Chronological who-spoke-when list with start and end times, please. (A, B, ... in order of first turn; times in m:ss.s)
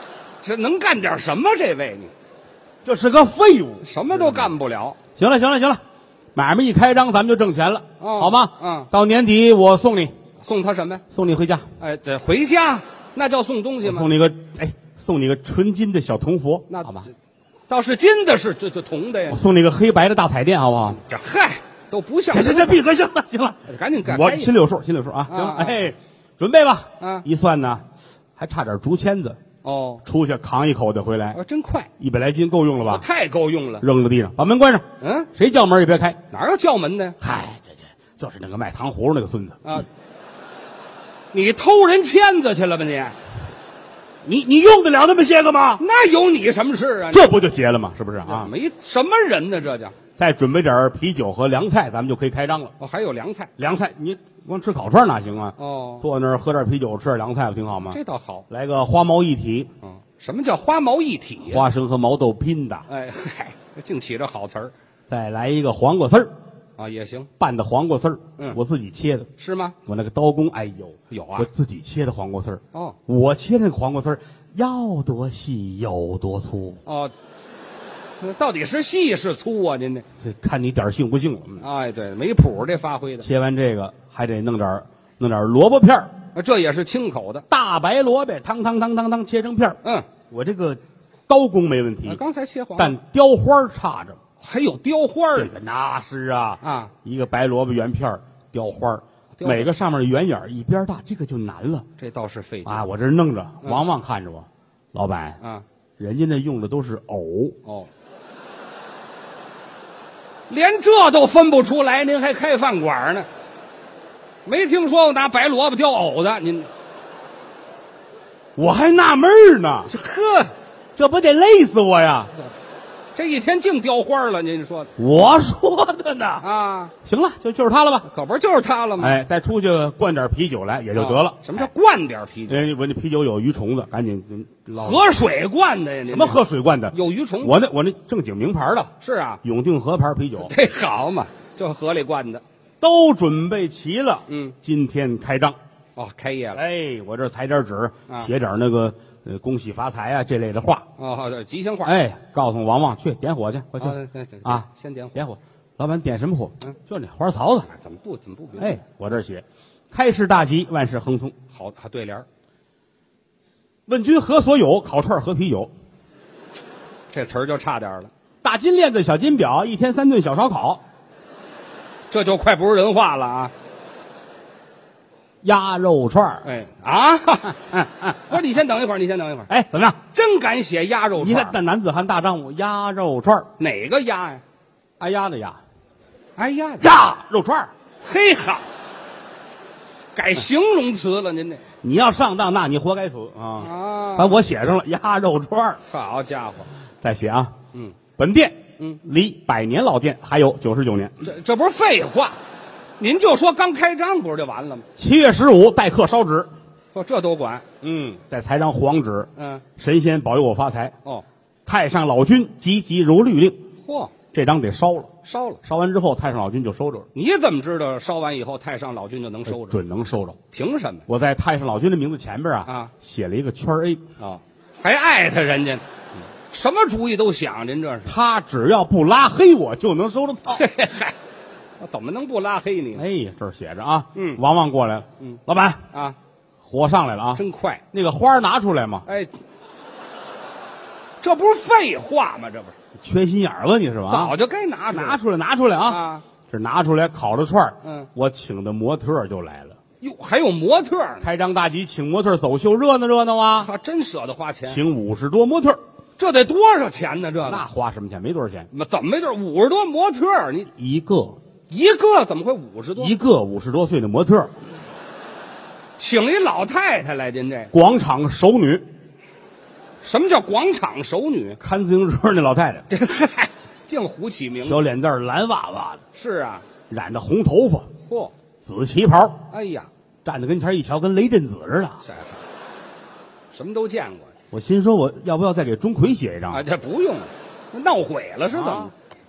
0:00.4-0:02.1 A
0:02.8-0:04.5 B
0:03.8-0:05.0 A
0:05.2-0:05.8 B
0:06.3-0:10.2 B
0:08.0-0:08.9 A
0:10.4-0:11.0 A
0:11.1-0:11.7 B
0:11.8-0:14.1 A
0:13.8-0:17.1 B
0:16.7-0:17.1 A
0:17.7-0:19.4 A
0:19.3-0:21.0 B
0:21.0-0:22.8 A
0:22.3-0:27.8 B
0:23.7-0:24.5 A
0:25.3-0:25.8 A
0:27.0-0:27.2 A
0:28.4-0:29.4 B
0:29.6-0:30.0 A
0:30.0-0:31.4 B
0:31.3-0:31.9 A
0:32.0-0:33.0 B
0:32.8-0:33.8 A
0:33.8-0:36.2 B
0:35.0-0:35.3 A
0:36.3-0:37.2 A
0:37.2-0:39.7 B
0:41.3-0:43.2 A
0:44.2-0:45.8 B
0:45.8-0:47.3 A
0:47.1-0:48.5 B
0:48.2-0:50.0 A
0:50.2-0:52.7 B
0:52.8-0:53.5 A
0:53.6-0:58.0 B
0:55.6-0:56.0 A
0:57.8-0:58.4 A
0:58.5-0:59.7 B
0:59.8-1:01.6 A
1:01.4-1:02.8 B
1:02.9-1:04.7 A
1:05.1-1:06.3 B
1:06.8-1:07.3 A
1:07.4-1:09.3 B
1:09.4-1:09.7 A
1:09.8-1:16.8 B
1:11.1-1:11.5 A
1:16.8-1:17.1 A
1:18.2-1:20.0 A
1:20.2-1:21.6 B
1:21.6-1:23.3 A
1:23.2-1:26.1 B
1:26.3-1:27.4 A
1:27.5-1:32.2 B
1:32.0-1:32.9 A
1:32.8-1:34.2 B
1:34.4-1:35.5 A
1:35.3-1:41.9 B
1:36.6-1:36.9 A
1:39.4-1:39.7 A
1:42.0-1:42.8 A
1:42.6-1:45.4 B
1:45.4-1:45.6 A
1:46.0-1:47.6 B
1:47.6-1:47.9 A
1:50.5-1:53.3 A
1:54.4-1:56.7 A
1:58.6-1:59.9 B
1:59.8-2:00.5 A
2:01.0-2:02.3 B
2:03.1-2:04.9 A
2:05.0-2:06.4 B
2:06.4-2:06.9 A
2:07.0-2:08.0 B
2:08.0-2:09.2 A
2:09.0-2:11.7 B
2:10.9-2:12.6 A
2:12.5-2:15.0 B
2:14.7-2:16.4 A
2:16.1-2:20.5 B
2:16.9-2:17.6 A
2:19.0-2:19.4 A
2:20.4-2:22.4 A
2:22.8-2:25.6 B
2:24.3-2:24.5 A
2:26.0-2:26.6 A
2:26.5-2:30.8 B
2:31.0-2:31.9 A
2:31.8-2:37.7 B
2:33.8-2:35.2 A
2:37.7-2:38.8 A
2:38.6-2:41.4 B
2:41.5-2:42.2 A
2:43.9-2:45.7 B
2:47.1-2:48.1 A
2:48.4-2:50.8 B
2:52.1-2:53.5 A
2:55.4-2:56.4 B
2:56.4-2:59.5 A
2:57.7-2:58.3 B
2:59.5-3:00.0 B
3:00.1-3:01.6 A
3:01.2-3:03.5 B
3:03.6-3:04.4 A
3:05.0-3:05.6 B
3:06.4-3:06.9 A
3:06.8-3:07.7 B
3:08.0-3:08.6 A
3:10.1-3:11.6 A
3:11.8-3:15.8 B
3:13.6-3:14.4 A
3:15.8-3:16.7 A
3:17.0-3:17.5 B
3:18.2-3:21.2 B
3:21.2-3:22.4 A
3:23.0-3:24.8 A
3:25.0-3:26.5 B
3:26.9-3:27.6 A
3:27.8-3:30.9 B
3:29.4-3:29.6 A
3:31.6-3:33.6 B
3:33.8-3:34.1 A
3:34.3-3:35.1 B
3:35.2-3:35.6 A
3:35.6-3:37.1 B
3:37.1-3:39.8 A
3:39.5-3:40.4 B
3:40.5-3:41.0 A
3:41.1-3:44.0 B
3:42.6-3:42.9 A
3:44.2-3:45.8 A
3:46.5-3:48.1 A
3:48.0-3:50.6 B
3:50.5-3:51.1 A
3:51.8-3:53.0 A
3:52.9-3:55.8 B
3:54.1-3:54.4 A
3:55.9-3:56.2 A
3:56.6-3:59.0 B
3:57.3-3:57.8 A
3:59.0-3:59.3 A
4:01.2-4:02.7 A
4:03.0-4:04.3 B
4:04.1-4:05.2 A
4:04.9-4:09.8 B
4:05.8-4:06.2 A
4:07.8-4:08.1 A
4:10.0-4:11.2 A
4:11.2-4:13.7 B
4:13.6-4:14.8 A
4:14.7-4:15.8 B
4:16.2-4:17.6 A
4:17.4-4:18.7 B
4:18.7-4:20.7 A
4:20.7-4:21.4 B
4:21.7-4:23.1 A
4:23.0-4:24.5 B
4:26.0-4:27.7 A
4:27.7-4:28.8 B
4:30.0-4:31.6 A
4:31.6-4:32.9 B
4:32.9-4:34.8 A
4:34.6-4:36.0 B
4:36.1-4:36.6 A
4:36.9-4:37.9 B
4:38.1-4:38.3 A
4:38.6-4:39.4 B
4:39.5-4:39.9 A
4:40.2-4:42.0 B
4:42.0-4:42.4 A
4:43.5-4:44.3 A
4:44.5-4:46.6 B
4:46.5-4:48.9 A
4:48.5-4:48.9 B